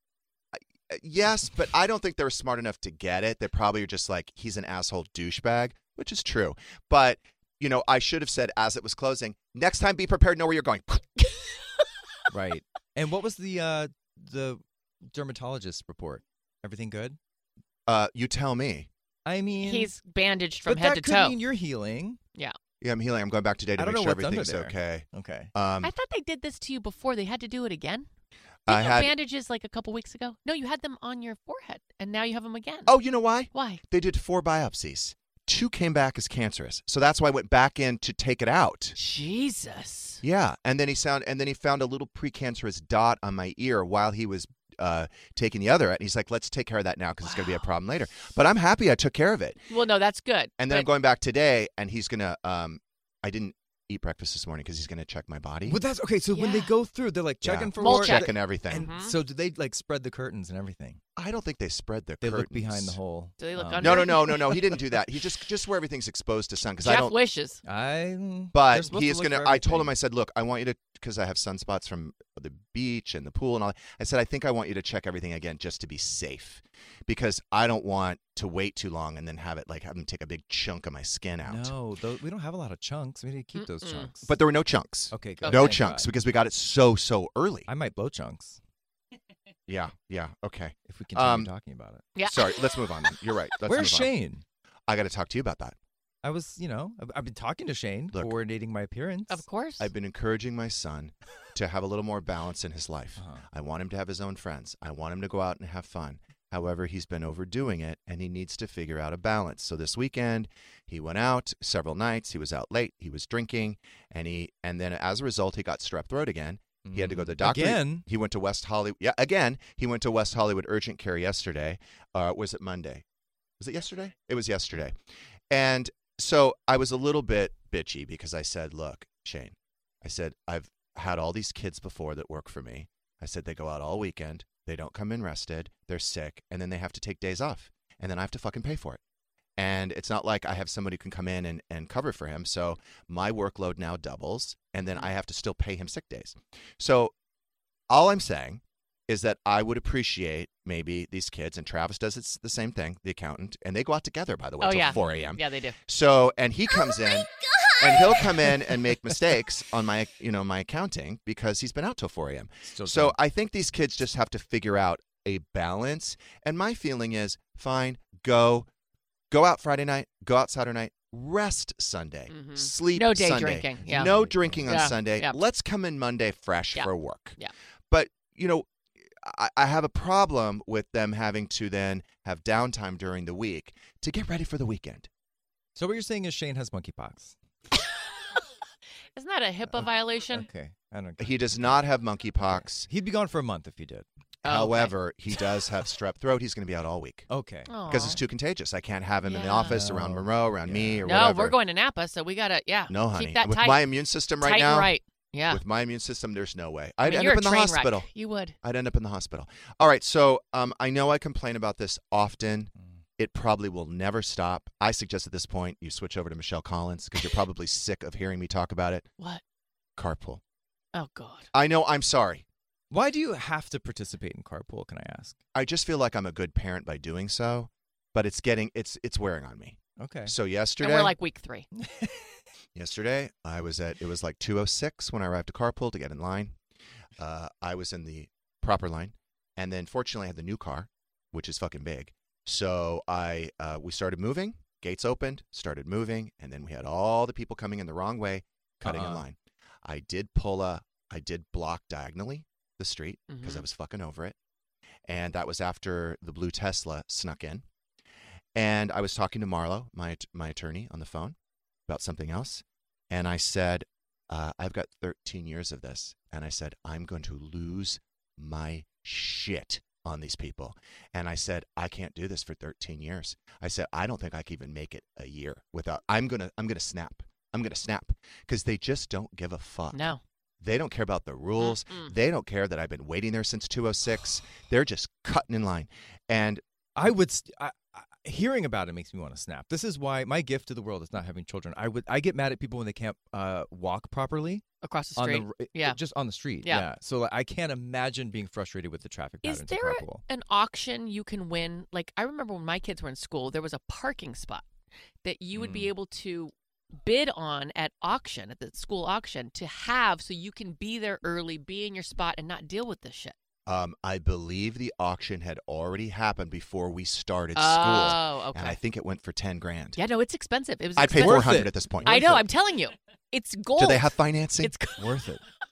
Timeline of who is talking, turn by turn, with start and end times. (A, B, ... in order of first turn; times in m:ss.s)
0:00.5-0:11.1 A
0:12.3-0:17.2 B
0:17.9-0:18.9 A
0:19.3-0:19.9 B
0:19.6-0:21.4 C
0:20.6-0:22.2 B
0:22.8-0:25.9 A
0:23.8-0:25.5 B
0:25.8-0:28.1 C
0:28.7-0:29.1 A
0:28.7-0:33.0 C
0:32.9-0:39.0 A
0:33.5-0:33.8 C
0:39.0-0:40.2 C
0:40.2-0:49.6 A
0:47.2-0:47.7 C
0:49.7-0:50.9 C
0:50.6-0:55.8 A
0:55.7-1:01.0 B
0:56.3-0:56.8 C
0:57.4-0:58.9 A
0:57.8-0:59.2 C
1:01.2-1:03.0 A
1:02.2-1:04.2 B
1:03.4-1:04.9 C
1:03.8-1:07.2 A
1:06.8-1:07.6 C
1:07.6-1:09.9 B
1:08.5-1:21.7 A
1:21.5-1:24.3 B
1:23.6-1:24.1 C
1:24.3-1:27.7 A
1:25.1-1:26.1 B
1:25.4-1:25.8 C
1:27.7-1:28.6 B
1:29.7-1:31.5 A
1:30.9-1:32.1 B
1:32.2-1:32.7 C
1:32.2-1:34.1 A
1:33.7-1:34.4 B
1:34.9-1:35.8 A
1:36.2-1:39.4 B
1:39.3-1:39.9 C
1:39.8-2:03.0 A
1:43.2-1:43.4 B
1:56.8-1:58.0 B
2:03.6-2:05.0 A
2:05.5-2:19.0 A
2:19.6-2:27.1 A
2:27.9-2:48.7 A
2:34.6-2:35.8 C
2:42.7-2:43.2 B
2:49.3-2:57.4 A
2:52.3-2:55.4 C
2:54.0-2:54.6 B
2:56.8-2:57.5 C
2:57.9-3:05.1 A
3:05.8-3:07.4 B
3:09.2-3:10.5 C
3:09.8-3:11.5 B
3:11.2-3:12.9 A
3:12.5-3:14.0 B
3:14.4-3:15.0 C
3:14.4-3:17.3 A
3:17.3-3:17.8 B
3:17.7-3:18.2 C
3:17.9-3:21.6 A
3:19.2-3:19.8 C
3:19.6-3:21.1 B
3:21.0-3:23.9 C
3:22.9-3:24.9 A
3:24.4-3:25.6 C
3:25.5-3:28.1 A
3:27.0-3:28.6 C
3:28.6-3:39.1 A
3:40.0-3:40.4 A
3:40.9-3:41.5 C
3:41.5-3:42.4 A
3:42.9-3:45.4 B
3:45.5-3:51.1 A
3:50.0-3:50.3 B
3:50.8-3:51.7 C
3:51.9-3:52.1 B
3:52.8-3:56.6 A
3:57.2-4:14.4 A
4:08.8-4:09.2 B
4:13.3-4:13.7 C
4:15.1-4:17.6 A
4:18.6-4:21.4 A
4:21.9-4:40.1 A
4:39.9-4:40.2 C
4:40.6-4:46.6 A
4:41.6-4:42.1 C
4:47.0-4:54.6 B
4:54.8-4:56.0 C
4:55.2-5:00.2 B
4:56.6-4:56.9 C
4:59.4-5:04.6 C
5:05.2-5:13.4 C
5:05.6-5:05.9 B
5:13.7-5:20.0 A
5:17.6-5:18.8 C
5:20.0-5:25.1 C
5:21.0-5:22.5 A
5:21.2-5:22.2 B
5:23.8-5:24.8 A
5:25.0-5:25.4 B